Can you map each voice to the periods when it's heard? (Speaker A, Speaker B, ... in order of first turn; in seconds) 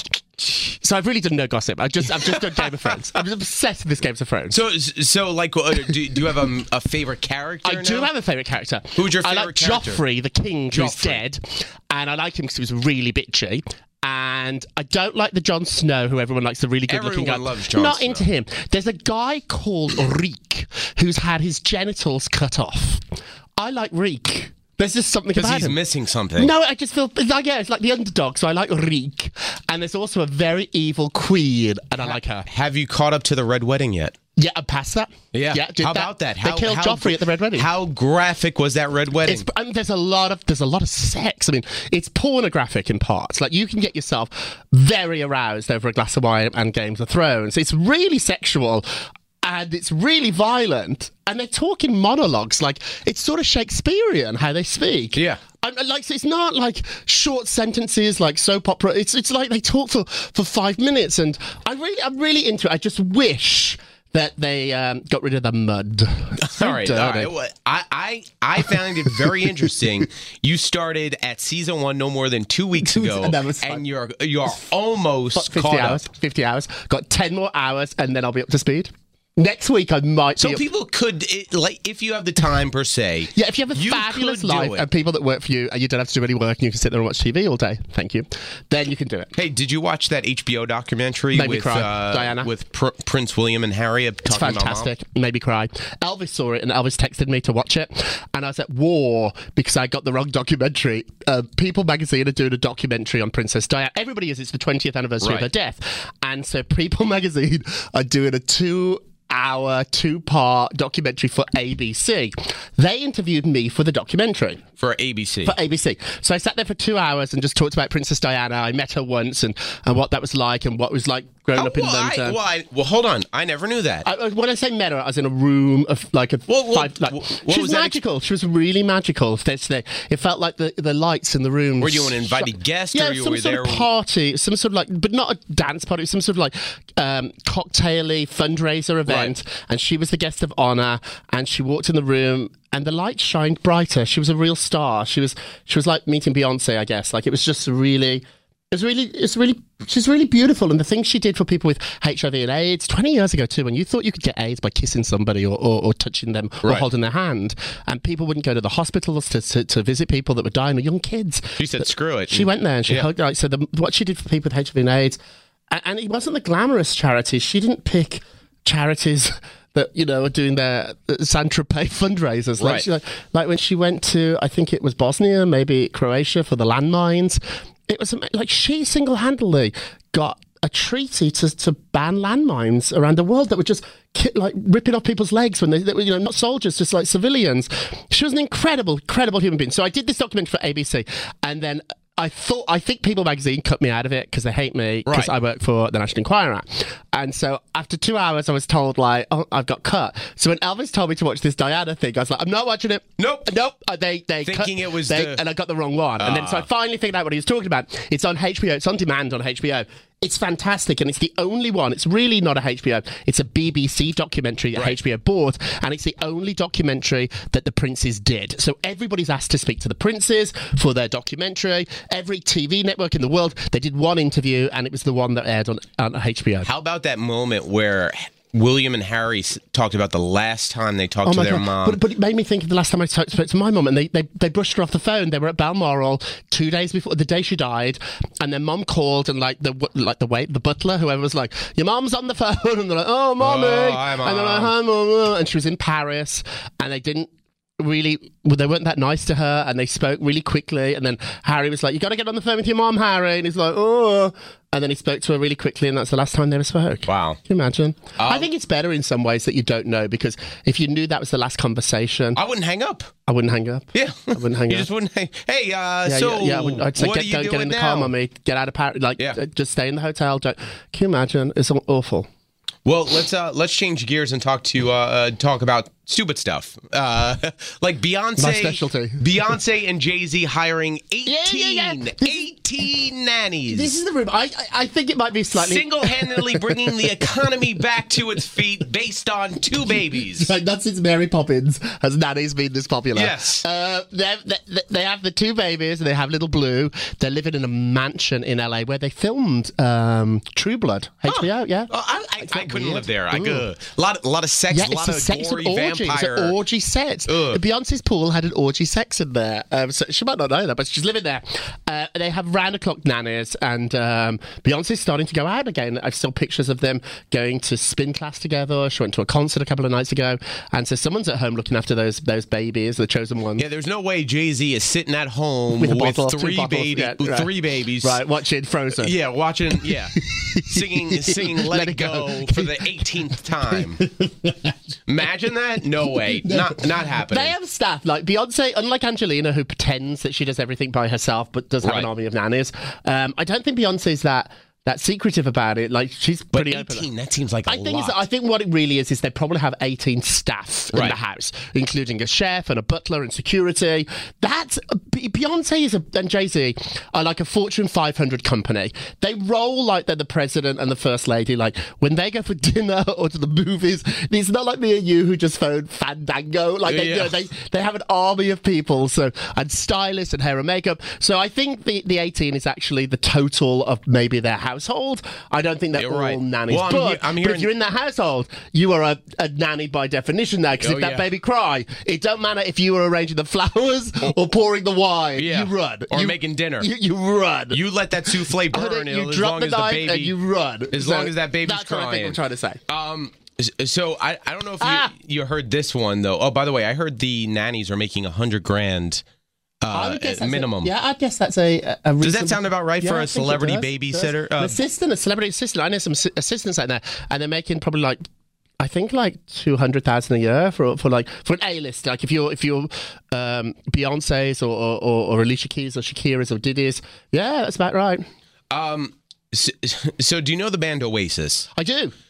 Speaker A: 0.4-4.6, 7.6-23.1, 23.6-25.8, 26.4-32.5, 34.4-37.7, 39.2-48.9, 49.4-67.3, 72.8-73.8, 75.3-80.6, 83.3-89.3, 91.3-92.5, 94.3-114.6, 115.4-122.4, 124.0-165.2, 165.7-226.7, 231.2-262.4, 263.3-264.9, 266.1-272.3, 278.4-279.3, 281.2-282.5, 283.7-287.3, 290.1-303.7, 304.7-323.7, 325.8-329.1, 329.8-334.8, 336.4-347.1, 347.7-392.8, 394.8-395.1, 399.9-408.2, 408.8-418.2, 421.8-422.2
Speaker B: 2.2-3.0, 4.5-8.1, 9.0-10.0, 10.7-11.2, 16.9-18.3, 25.4-26.5, 32.0-34.2, 35.3-39.5, 55.1-55.4, 66.4-76.0, 80.4-84.9, 89.3-94.9, 105.2-105.5, 114.8-115.5, 121.5-124.1, 126.5-128.0, 131.8-133.9, 139.1-139.3, 161.6-163.1, 172.6-172.9, 195.1-195.3, 203.2-203.5, 204.4-205.4, 206.2-206.7, 226.6-232.0, 243.4-244.7, 257.1-257.4, 258.2-258.5, 262.4-263.1, 263.9-268.1, 272.9-284.0, 285.5-290.5, 293.1-293.6, 301.3-306.6, 307.3-307.6, 323.6-328.2, 329.0-334.0, 335.1-337.5, 341.8-342.1, 346.5-348.2, 366.8-367.4, 375.9-377.7, 380.8-381.3, 385.4-386.9, 387.7-390.4, 390.9-399.2, 399.8-400.9, 402.2-404.8, 418.7-421.7